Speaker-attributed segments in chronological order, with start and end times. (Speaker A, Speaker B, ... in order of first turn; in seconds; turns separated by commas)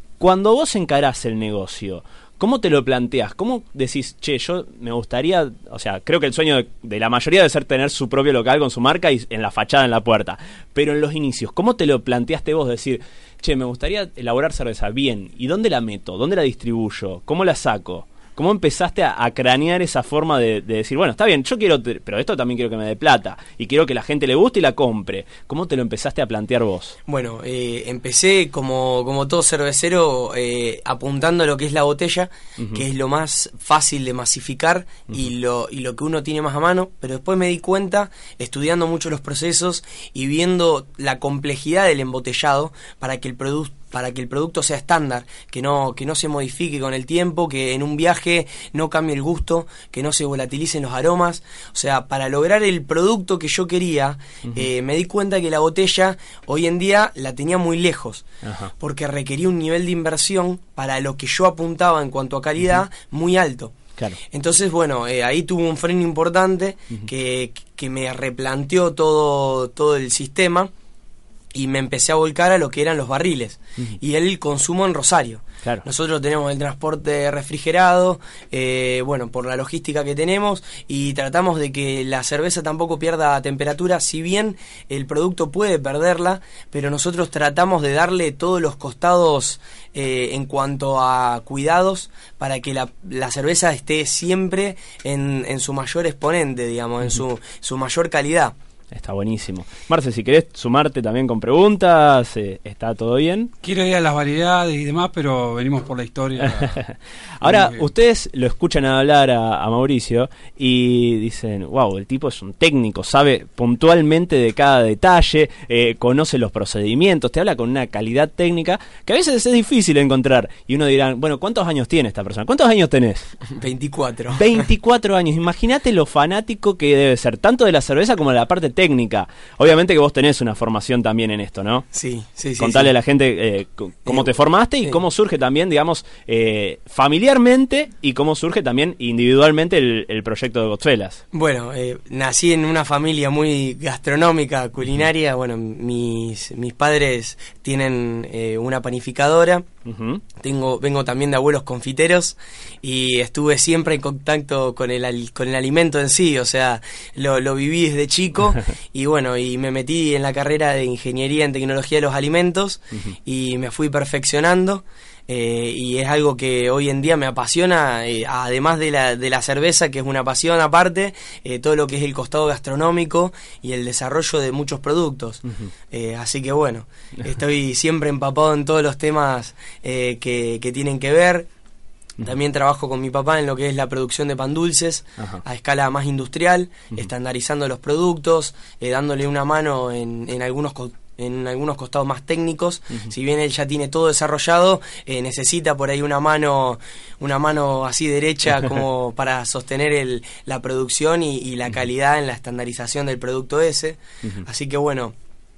Speaker A: 0.2-26.9, Speaker B: 27.1-58.2, Speaker A: 32.6-32.8, Speaker A: 58.4-58.7, Speaker B: 58.8-63.7, Speaker B: 64.3-70.7, Speaker B: 71.5-98.5, Speaker A: 98.9-103.5, Speaker C: 103.6-106.8, Speaker A: 106.4-123.3, Speaker C: 107.4-107.9, Speaker B: 123.5-124.6, Speaker A: 124.3-131.9, Speaker B: 131.9-132.9, Speaker A: 132.6-141.2, Speaker B: 141.3-149.7, Speaker A: 149.8-150.2, Speaker B: 150.3-181.5, Speaker B: 182.2-205.1